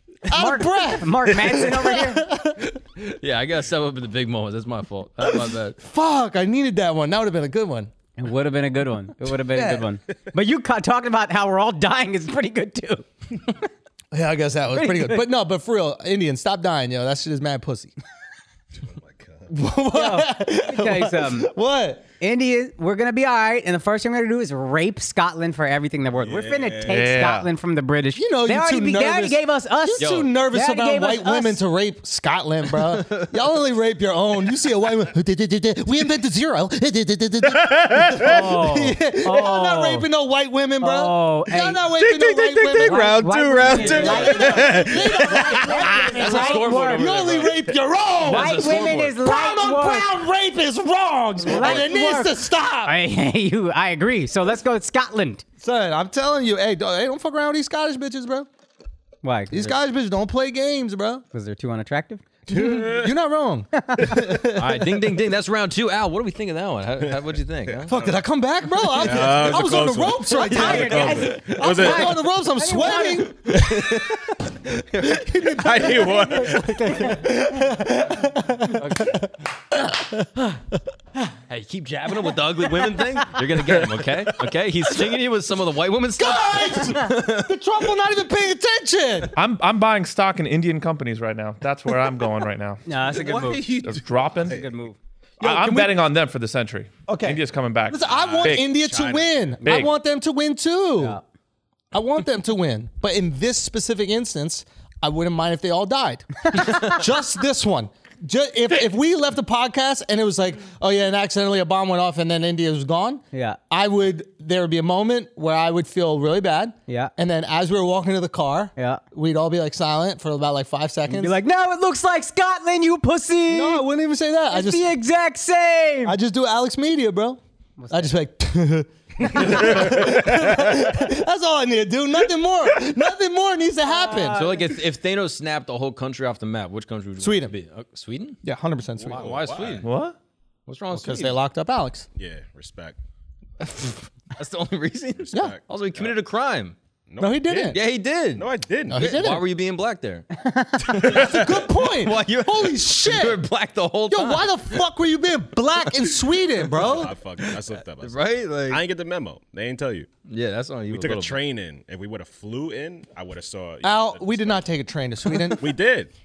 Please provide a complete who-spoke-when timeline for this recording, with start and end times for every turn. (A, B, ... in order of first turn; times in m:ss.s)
0:00.3-0:02.8 A
0:00.3-0:02.3 B
0:03.0-0:05.8 C
0:05.2-0:07.9 A
0:08.2-0:13.5 B
0:09.5-0:09.9 A
0:14.1-0:17.9 A
0:14.8-0:15.2 B
0:18.8-0:19.5 D
0:19.5-0:22.0 A
0:19.9-0:21.5 B
0:22.2-0:31.6 B
0:26.2-0:27.4 D
0:26.9-0:27.5 E
0:28.2-0:53.0 A
0:30.0-0:30.3 C
0:32.8-0:33.3 C
0:37.5-0:38.4 D
0:38.1-0:40.1 B
0:40.8-0:41.8 B
0:41.9-0:46.2 D
0:42.8-0:47.1 B
0:46.0-0:47.6 C
0:48.2-0:49.2 C
0:48.2-0:50.2 B
0:51.4-0:55.4 B
0:55.6-0:58.5 A
0:59.2-0:59.8 B
0:59.5-1:01.2 A
1:01.3-1:02.2 B
1:02.5-1:05.0 A
1:02.5-1:03.1 D
1:04.6-1:08.0 C
1:07.7-1:08.2 D
1:07.9-1:13.9 A
1:08.9-1:12.2 D
1:10.3-1:13.6 B
1:13.5-1:14.1 D
1:15.0-1:20.4 A
1:15.4-1:17.2 D
1:16.0-1:17.2 B
1:18.7-1:19.2 C
1:21.5-1:27.5 C
1:26.2-1:29.4 A
1:29.4-1:32.8 E
1:32.9-1:33.7 B
1:33.0-1:34.7 D
1:33.8-1:34.6 E
1:34.4-1:35.0 B
1:35.4-1:36.0 A
1:35.4-1:38.7 E
1:37.1-1:41.2 A
1:38.0-1:39.6 D
1:39.6-1:39.9 E
1:41.9-2:01.4 A
1:46.6-1:46.9 B
1:53.3-1:53.6 B
1:56.9-1:57.1 B
1:58.8-1:59.0 B
2:01.1-2:03.8 B
2:03.5-2:04.9 A
2:04.5-2:06.2 B
2:06.0-2:14.4 A
2:07.8-2:08.1 B
2:09.3-2:10.8 D
2:13.8-2:14.8 B
2:14.3-2:18.4 C
2:17.2-2:17.5 A
2:18.4-2:19.3 A
2:19.0-2:19.8 D
2:19.0-2:19.9 C
2:19.8-2:20.2 E
2:20.7-2:21.4 C
2:20.9-2:22.1 A
2:22.2-2:23.0 D
2:23.6-2:26.8 C
2:25.2-2:26.1 D
2:27.1-2:29.2 D
2:27.2-2:27.8 A
2:27.7-2:30.3 C
2:28.9-2:29.4 A
2:30.3-2:31.2 B
2:30.9-2:33.5 A
2:30.9-2:34.6 C
2:31.0-2:31.4 D
2:34.1-2:37.2 A
2:35.9-2:36.1 C
2:36.7-2:40.1 D
2:37.4-2:38.8 C
2:40.3-2:41.4 C
2:40.9-2:44.7 D
2:43.8-2:45.8 A
2:45.3-2:46.1 D